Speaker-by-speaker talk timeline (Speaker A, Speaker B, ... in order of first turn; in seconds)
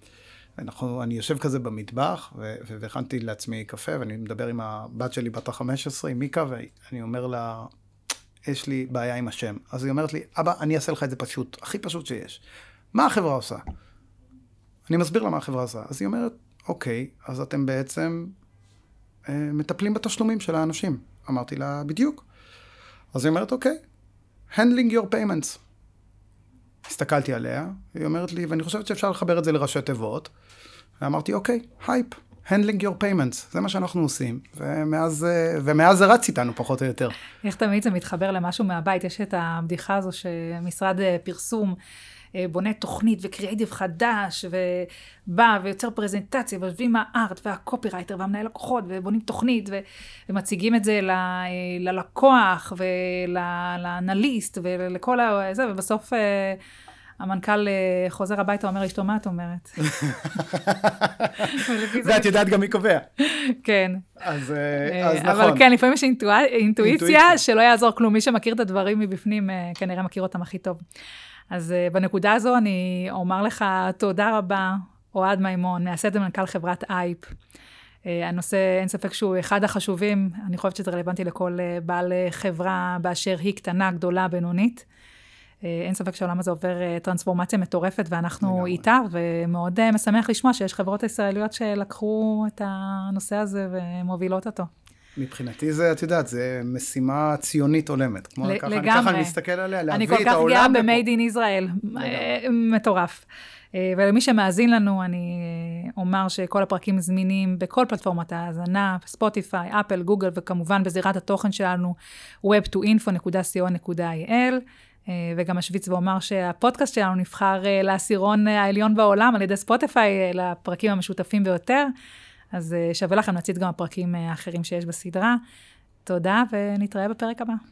Speaker A: 0.6-7.7, 8.4-12.4, 12.9-13.6, 14.9-18.3, 19.2-22.2, 23.1-23.8, 24.5-25.6, 26.8-30.3, 31.0-37.2, 59.9-63.1, 64.2-65.7, 66.8-67.4, 88.4-88.8, 95.2-101.0, 102.0-102.3
Speaker B: 37.4-41.8, 42.4-56.6, 57.2-60.1, 61.4-62.5, 63.2-64.1, 64.8-70.8, 71.5-77.2, 78.0-84.8, 85.6-94.7, 98.4-99.3, 99.9-121.9, 122.5-125.4, 126.0-127.6